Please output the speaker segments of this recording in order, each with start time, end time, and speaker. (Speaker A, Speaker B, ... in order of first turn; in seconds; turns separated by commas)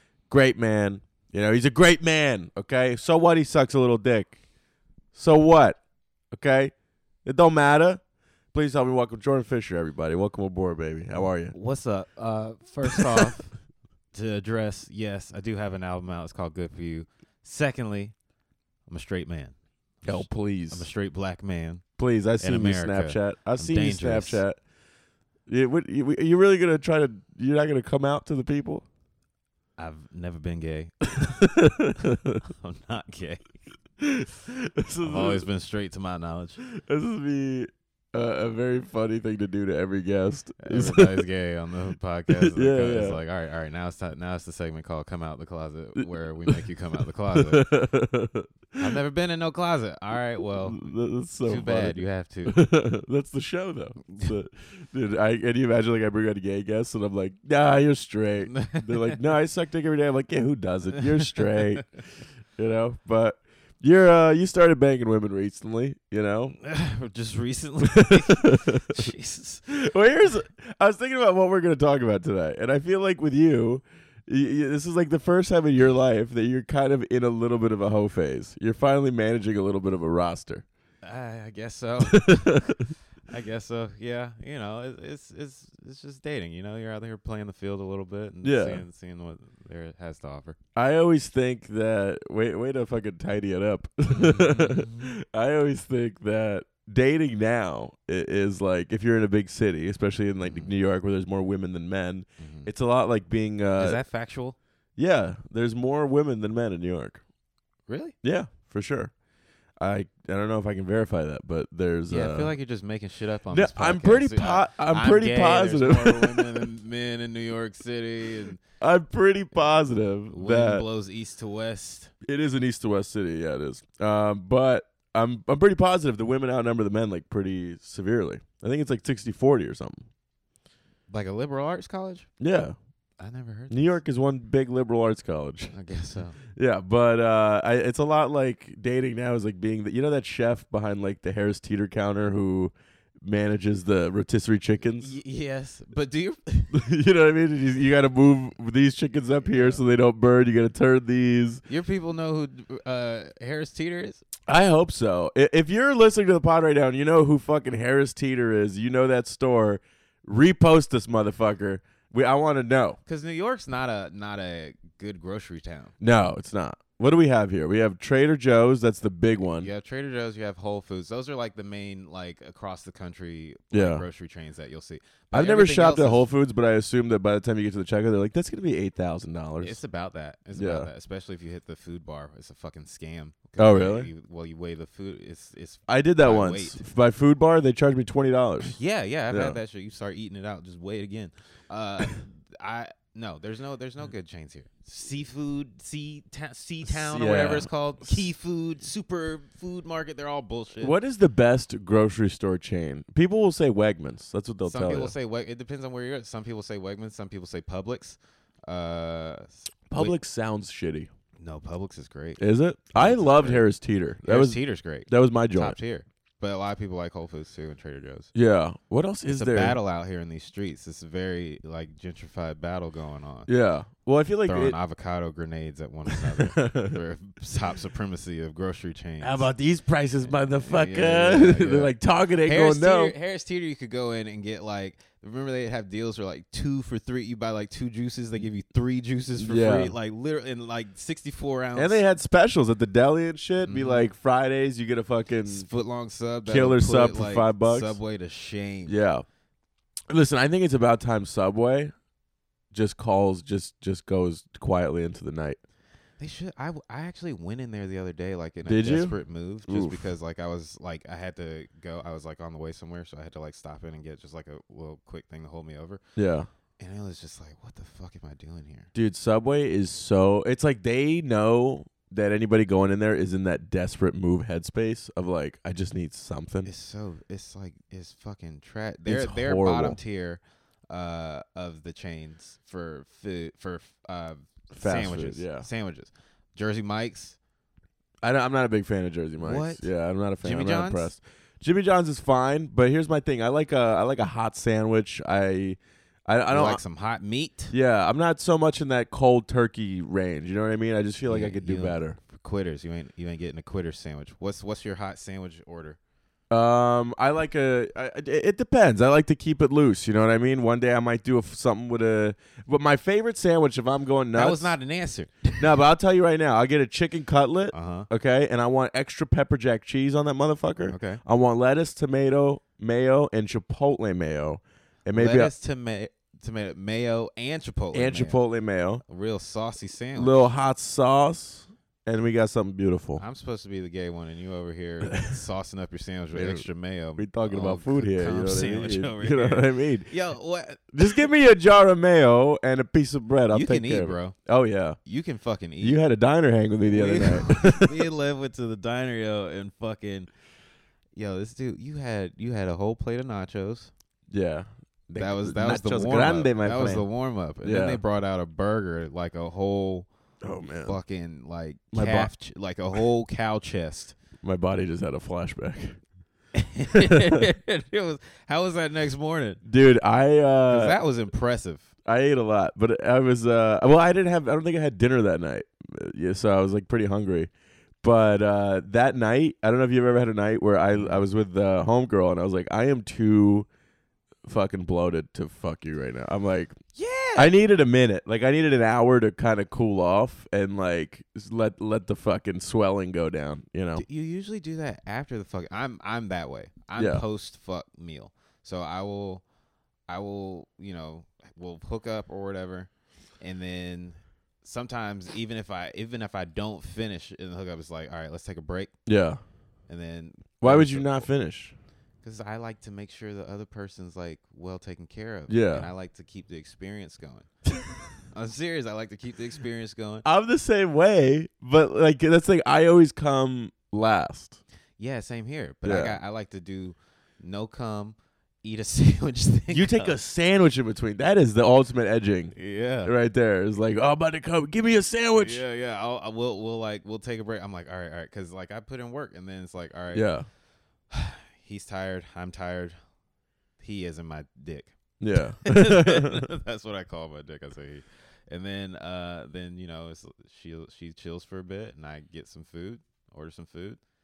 Speaker A: 0.3-4.4, Speaker A: 5.1-5.8, Speaker A: 6.3-6.7, Speaker A: 7.2-8.0, Speaker A: 8.5-11.5, Speaker B: 11.1-13.6, Speaker B: 14.1-18.1, Speaker B: 18.9-21.8, Speaker A: 20.0-20.9, Speaker A: 22.0-24.6, Speaker B: 22.4-24.4, Speaker A: 25.5-28.9, Speaker B: 29.8-31.5, Speaker A: 31.2-32.4, Speaker B: 32.4-33.5, Speaker A: 34.0-35.5, Speaker B: 35.0-36.6, Speaker A: 36.6-41.2, Speaker B: 40.6-47.7, Speaker A: 42.3-43.2, Speaker A: 46.0-46.5, Speaker A: 47.3-48.9, Speaker B: 48.8-50.8, Speaker A: 50.6-61.9, Speaker B: 51.4-52.6, Speaker B: 58.4-59.2, Speaker A: 62.6-66.6, Speaker B: 66.6-69.7, Speaker A: 67.8-68.9, Speaker A: 69.7-80.6, Speaker B: 81.0-82.7, Speaker A: 82.1-82.9, Speaker B: 83.3-90.6, Speaker A: 88.4-88.8, Speaker A: 90.8-104.0, Speaker B: 94.1-95.0, Speaker B: 100.4-100.7, Speaker B: 102.4-102.7, Speaker B: 103.8-104.5, Speaker A: 105.0-107.2, Speaker B: 107.9-108.1, Speaker A: 108.2-109.1, Speaker A: 109.8-112.5, Speaker B: 112.1-118.6, Speaker A: 113.5-116.5, Speaker A: 118.8-120.8, Speaker B: 120.3-122.1, Speaker A: 122.2-130.1, Speaker B: 131.1-132.3, Speaker A: 132.4-132.8, Speaker B: 133.2-134.0, Speaker A: 133.7-135.7, Speaker B: 135.7-136.4, Speaker A: 136.5-145.1, Speaker B: 144.9-146.8, Speaker A: 146.7-151.6, Speaker B: 149.5-149.8, Speaker B: 151.7-154.2, Speaker A: 154.5-163.0, Speaker B: 163.1-165.9, Speaker A: 166.0-169.7, Speaker B: 169.6-176.2, Speaker A: 173.7-174.0, Speaker A: 175.3-179.8, Speaker B: 179.6-186.8, Speaker A: 180.5-180.9, Speaker A: 183.6-184.1, Speaker A: 185.9-188.8, Speaker B: 188.6-200.9, Speaker A: 189.3-189.6, Speaker A: 196.8-198.2, Speaker A: 200.8-205.1, Speaker B: 204.6-210.1, Speaker A: 209.9-211.1, Speaker B: 211.4-212.4, Speaker A: 212.4-215.8, Speaker B: 212.9-213.7, Speaker B: 214.2-218.3, Speaker A: 218.3-219.8, Speaker B: 219.3-223.5, Speaker A: 223.5-224.8, Speaker B: 224.4-229.5, Speaker A: 226.1-227.0, Speaker A: 229.2-233.1, Speaker B: 230.2-242.0, Speaker A: 239.4-239.9, Speaker A: 241.7-245.7, Speaker B: 243.6-244.1, Speaker B: 245.4-249.0, Speaker A: 246.5-248.0, Speaker A: 248.9-249.2, Speaker A: 250.1-251.9, Speaker A: 252.7-255.6, Speaker B: 256.2-266.0, Speaker A: 258.6-259.1, Speaker A: 259.7-260.0, Speaker A: 266.1-266.5, Speaker B: 266.8-268.9, Speaker A: 268.9-276.7, Speaker B: 276.6-287.4, Speaker A: 279.1-280.0, Speaker A: 284.7-285.7, Speaker A: 288.2-296.8, Speaker B: 289.4-289.9, Speaker B: 290.4-291.1, Speaker B: 296.5-297.7, Speaker A: 297.7-302.2, Speaker B: 301.3-306.0, Speaker A: 306.5-314.7, Speaker B: 314.3-315.7, Speaker A: 315.6-325.5, Speaker B: 317.7-318.1, Speaker B: 320.8-321.2, Speaker B: 325.1-328.4, Speaker A: 327.9-329.0, Speaker B: 329.1-330.5, Speaker A: 330.1-333.2, Speaker B: 333.2-341.0, Speaker A: 336.3-340.1, Speaker A: 340.9-345.0, Speaker B: 343.5-344.4, Speaker B: 345.0-346.0, Speaker A: 345.8-348.1, Speaker B: 346.9-350.3, Speaker B: 351.1-353.9, Speaker A: 354.3-357.1, Speaker B: 355.2-360.1, Speaker A: 357.6-358.0, Speaker A: 360.4-360.9, Speaker B: 360.7-364.2, Speaker A: 361.9-362.3, Speaker A: 364.4-366.0, Speaker B: 366.6-369.6, Speaker A: 366.9-367.4, Speaker A: 369.6-371.0, Speaker B: 370.7-371.8, Speaker A: 372.0-377.5, Speaker A: 378.0-383.7, Speaker B: 380.9-381.2, Speaker A: 384.4-386.8, Speaker B: 386.9-387.5, Speaker A: 387.4-394.0, Speaker B: 393.9-399.4, Speaker A: 397.0-397.2, Speaker B: 400.1-408.9, Speaker A: 409.1-409.4, Speaker B: 409.9-411.3, Speaker A: 410.6-411.7, Speaker B: 412.2-417.5, Speaker A: 415.5-415.9, Speaker B: 418.3-420.2, Speaker A: 420.2-424.6, Speaker B: 425.0-430.1, Speaker A: 425.8-426.2, Speaker A: 429.7-435.6, Speaker B: 432.5-433.1, Speaker B: 435.4-440.3, Speaker A: 440.1-440.4, Speaker B: 441.1-442.9, Speaker B: 443.8-444.9, Speaker A: 445.2-446.5, Speaker B: 445.6-454.0